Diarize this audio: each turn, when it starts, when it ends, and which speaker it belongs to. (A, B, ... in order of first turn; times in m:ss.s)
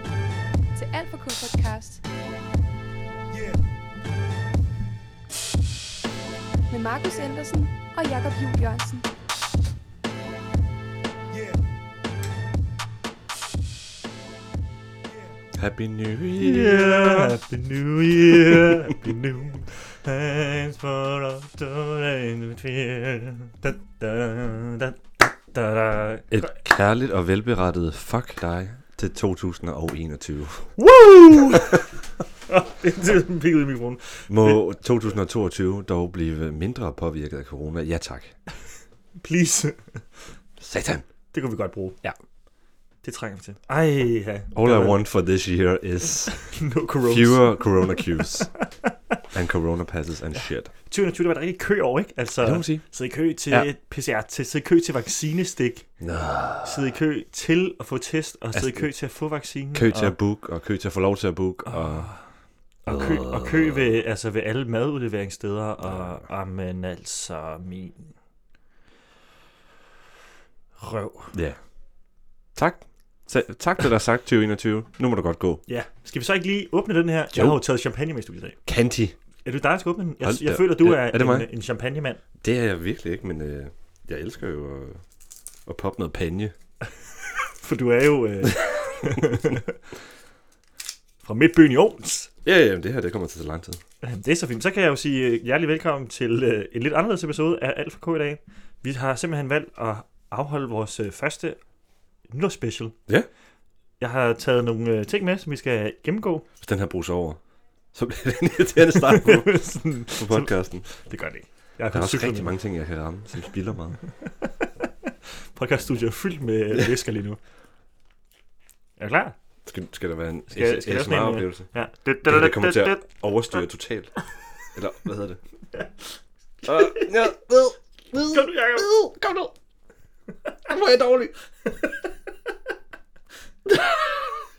0:00.7-0:02.0 A
0:06.7-0:09.0 A
0:15.6-0:17.4 B
0:16.4-0:26.5 C
0:18.3-0:18.8 B
0:26.3-0:30.8 B
0:30.8-0:31.8 C
0:32.5-0:34.6 C
0:34.3-0:38.4 B
0:39.2-0:40.2 C
0:40.6-0:41.1 B
0:41.3-0:42.0 C
0:43.0-0:45.0 C
0:44.5-0:48.7 B
0:46.5-0:48.3 C
0:49.3-0:50.7 B
0:50.9-0:55.9 C
0:52.4-0:52.8 B
0:56.0-0:56.9 B
0:56.6-1:00.2 C
0:58.5-0:58.9 B
0:59.7-1:02.1 B
1:01.7-1:08.1 C
1:02.9-1:03.8 B
1:10.8-1:11.4 C
1:11.3-1:11.6 B
1:12.6-1:15.6 B
1:15.7-1:18.6 C
1:17.3-1:17.6 B
1:18.7-1:19.2 B
1:19.4-1:22.2 C
1:20.2-1:21.5 B
1:22.4-1:25.0 B
1:25.7-1:26.5 B
1:27.5-1:29.7 C
1:31.2-1:32.3 C
1:32.4-1:33.8 B
1:34.0-1:41.6 C
1:42.3-1:43.0 C
1:44.0-1:46.5 C
1:46.6-1:47.4 B
1:47.9-1:50.9 B
1:49.0-1:52.6 C
1:51.9-1:54.0 B
1:54.2-1:54.9 C
1:55.6-1:57.4 C
1:59.0-1:59.4 C
1:59.7-2:01.7 B
2:00.5-2:03.1 C
2:02.2-2:05.4 B
2:06.6-2:07.1 C
2:06.6-2:09.5 B
2:08.3-2:08.9 C
2:10.7-2:11.3 B
2:13.7-2:14.3 C